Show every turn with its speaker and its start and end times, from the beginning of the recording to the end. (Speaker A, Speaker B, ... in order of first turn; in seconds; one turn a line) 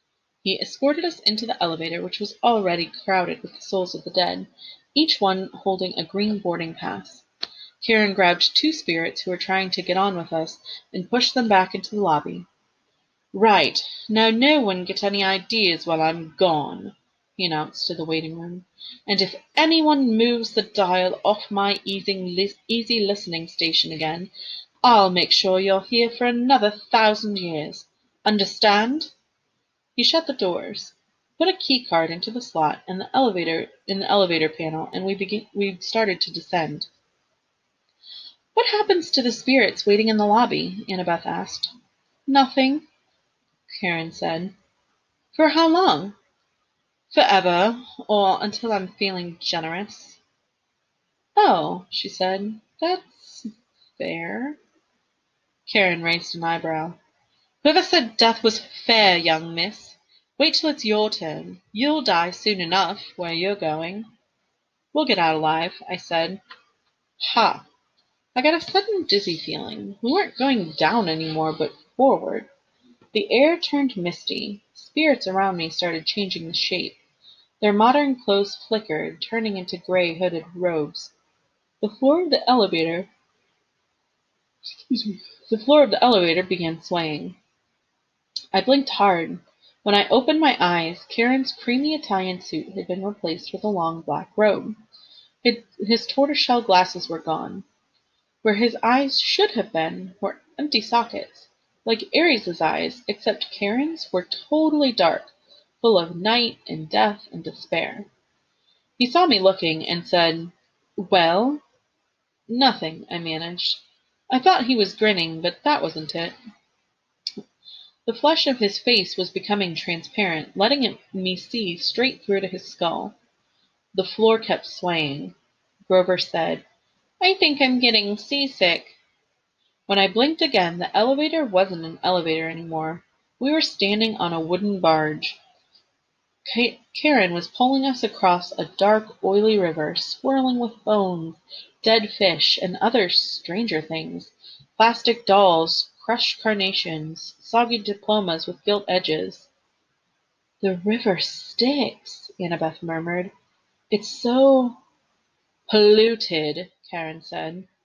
Speaker A: 0.4-7.2
Speaker A: 7.8-12.5
Speaker A: 13.3-24.3
Speaker A: 24.8-29.1
Speaker A: 30.0-36.9
Speaker A: 38.5-41.7
Speaker A: 42.3-42.9
Speaker A: 43.8-44.5
Speaker A: 45.3-46.2
Speaker A: 47.1-50.2
Speaker A: 51.4-54.6
Speaker A: 55.7-57.0
Speaker A: 57.6-64.1
Speaker A: 64.9-66.4
Speaker A: 67.2-67.7
Speaker A: 68.3-72.5
Speaker A: 73.1-77.0
Speaker A: 77.6-81.1
Speaker A: 81.8-83.1
Speaker A: 84.9-87.4
Speaker A: 88.5-94.8
Speaker A: 95.4-97.7
Speaker A: 98.4-108.1
Speaker A: 109.0-111.6
Speaker A: 112.5-116.4
Speaker A: 118.1-123.2
Speaker A: 123.9-125.4
Speaker A: 125.9-126.6
Speaker A: 127.2-129.0
Speaker A: 129.9-135.4
Speaker A: 136.5-149.5
Speaker A: 150.6-153.3
Speaker A: 153.9-154.8
Speaker A: 155.7-157.7